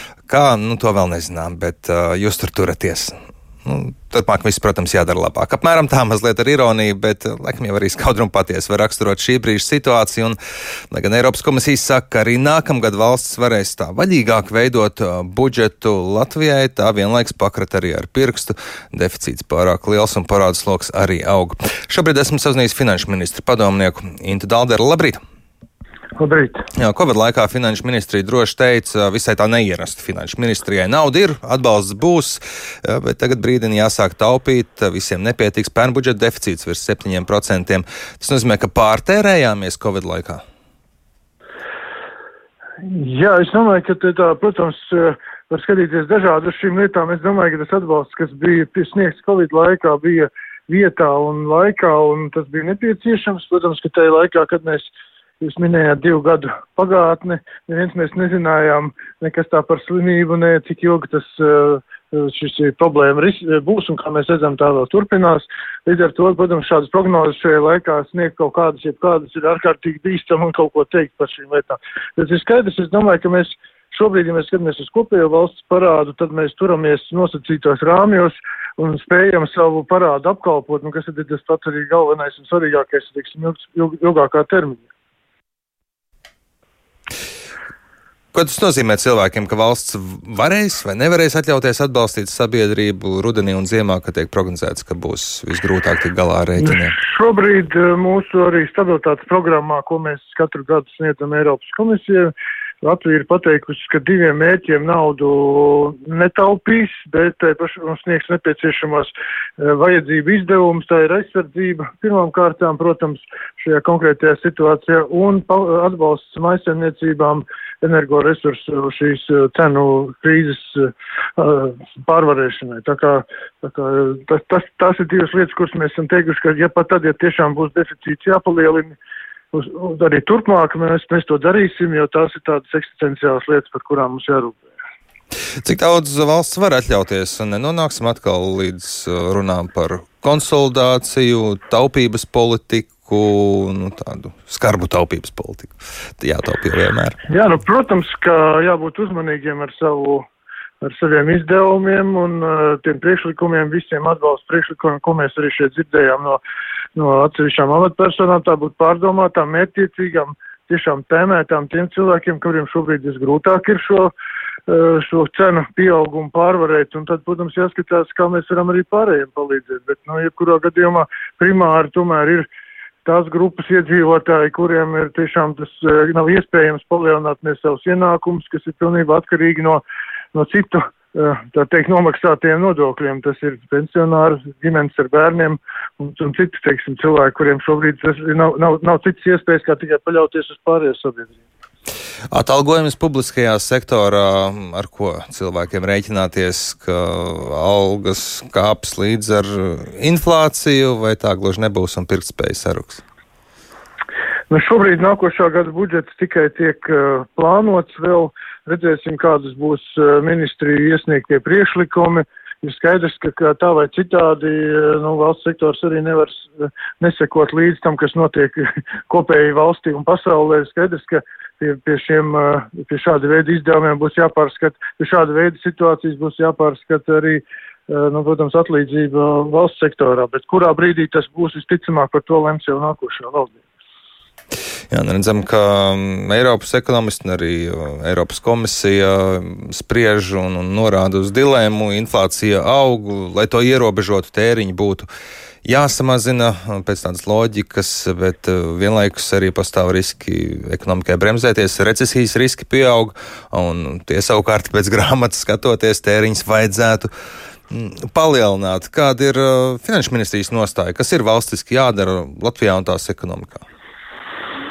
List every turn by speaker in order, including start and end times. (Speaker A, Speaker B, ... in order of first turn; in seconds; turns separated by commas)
Speaker A: 0.3-10.4, Speaker A: 10.9-25.2, Speaker B: 26.2-26.7, Speaker A: 26.8-40.4, Speaker B: 42.8-84.9, Speaker A: 88.3-97.0, Speaker B: 96.6-129.0, Speaker B: 129.5-134.7, Speaker A: 135.6-147.2, Speaker B: 147.3-150.2, Speaker B: 150.8-156.4, Speaker B: 157.0-164.1, Speaker B: 164.7-172.5, Speaker B: 173.1-179.8, Speaker B: 180.3-191.4, Speaker A: 192.3-203.0, Speaker B: 204.5-233.6, Speaker A: 234.9-245.1, Speaker A: 245.7-257.1, Speaker A: 257.7-263.6